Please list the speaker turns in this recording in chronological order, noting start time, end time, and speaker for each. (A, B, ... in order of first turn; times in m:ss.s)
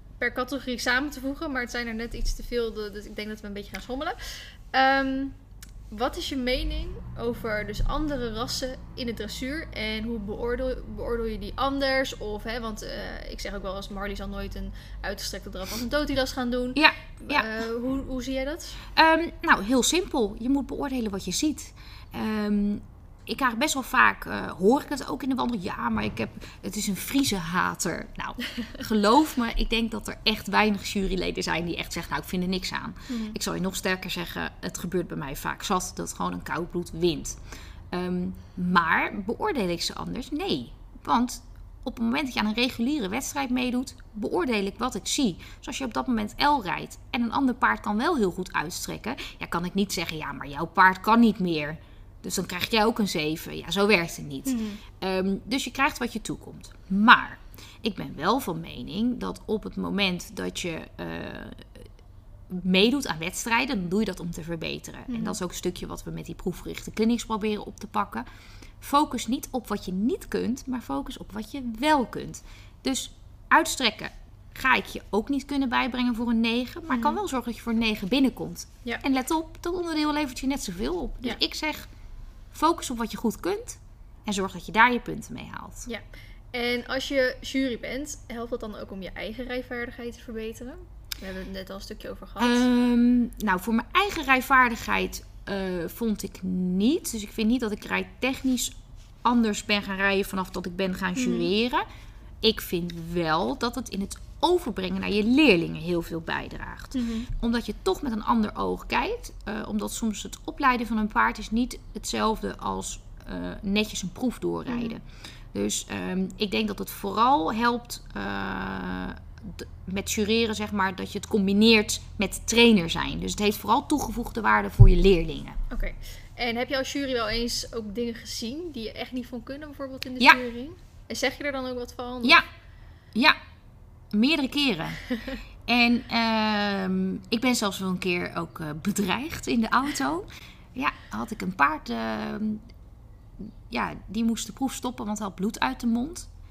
0:00.2-0:05.4 A
0:05.9-0:18.8 A
0:16.7-0:17.5 B
0:18.9-0:37.4 B
0:33.1-0:33.4 A
0:37.9-1:01.7 B
0:54.4-0:54.8 A
1:02.5-1:08.2 B
1:05.1-1:05.4 A
1:08.8-1:21.9 B
1:16.9-1:17.2 A
1:22.5-1:25.9 B
1:25.8-1:32.6 A
1:32.4-1:41.8 B
1:41.2-1:41.5 A
1:42.4-2:05.6 B
1:46.9-1:47.3 A
2:05.7-2:12.4 A
2:14.1-2:15.0 B
2:15.7-2:22.6 B
2:23.7-2:26.3 B